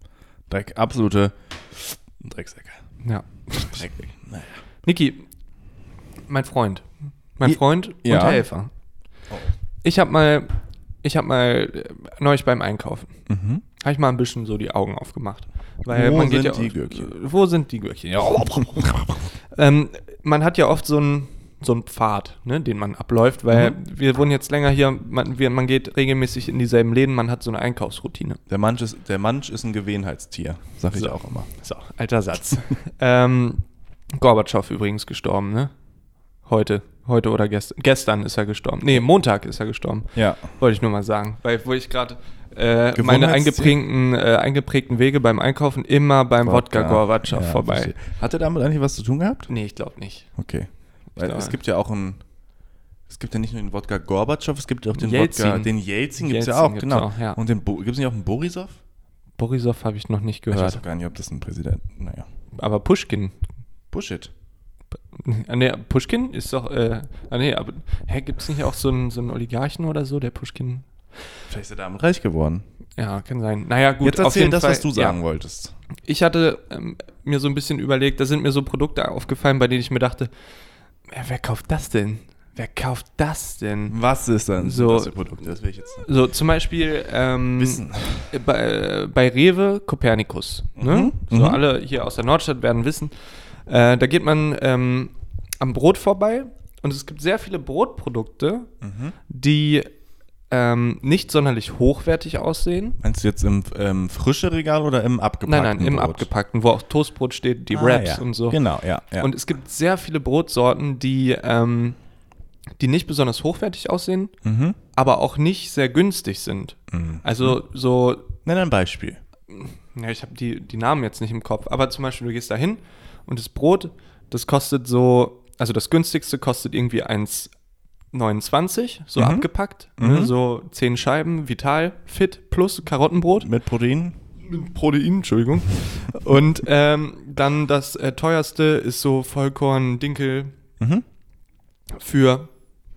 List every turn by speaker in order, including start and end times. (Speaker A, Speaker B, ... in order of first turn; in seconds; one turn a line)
Speaker A: 0.5-2.8
Speaker B: 3.0-4.0
Speaker A: 3.6-4.6
Speaker B: 4.8-5.2
Speaker B: 6.3-6.9
Speaker B: 7.4-8.7
Speaker A: 7.4-8.4
Speaker B: 9.8-10.5
Speaker B: 11.0-13.2
Speaker A: 13.3-13.6
Speaker B: 13.8-28.4
Speaker A: 15.9-17.1
Speaker A: 23.5-23.8
Speaker A: 28.5-31.5
Speaker B: 30.9-35.7
Speaker B: 36.5-47.9
Speaker A: 40.1-40.5
Speaker A: 43.0-43.8
Speaker A: 46.4-49.5
Speaker B: 49.5-50.3
Speaker A: 50.4-52.2
Speaker B: 51.1-51.6
Speaker A: 53.1-58.8
Speaker B: 55.0-57.4
Speaker B: 59.4-60.8
Speaker A: 60.5-62.3
Speaker B: 62.6-63.4
Speaker A: 63.9-64.3
Speaker B: 65.1-70.9
Speaker A: 71.5-72.6
Speaker B: 73.0-75.2
Speaker A: 74.0-75.7
Speaker B: 76.1-80.3
Speaker B: 81.1-84.0
Speaker A: 83.9-86.1
Speaker B: 84.6-93.1
Speaker A: 87.6-88.3
Speaker A: 90.8-91.6
Speaker B: 93.7-98.7
Speaker A: 98.8-99.2
Speaker B: 99.3-99.9
Speaker B: 100.5-103.0
Speaker A: 103.0-106.3
Speaker B: 105.5-108.6
Speaker A: 107.7-109.3
Speaker B: 109.2-112.0
Speaker B: 112.8-114.3
Speaker A: 114.4-114.8
Speaker B: 114.9-118.3
Speaker A: 116.9-117.6
Speaker A: 118.5-119.2
Speaker B: 119.5-127.5
Speaker B: 128.1-133.5
Speaker A: 129.2-130.3
Speaker A: 133.4-134.2
Speaker B: 134.4-140.5
Speaker B: 142.0-142.5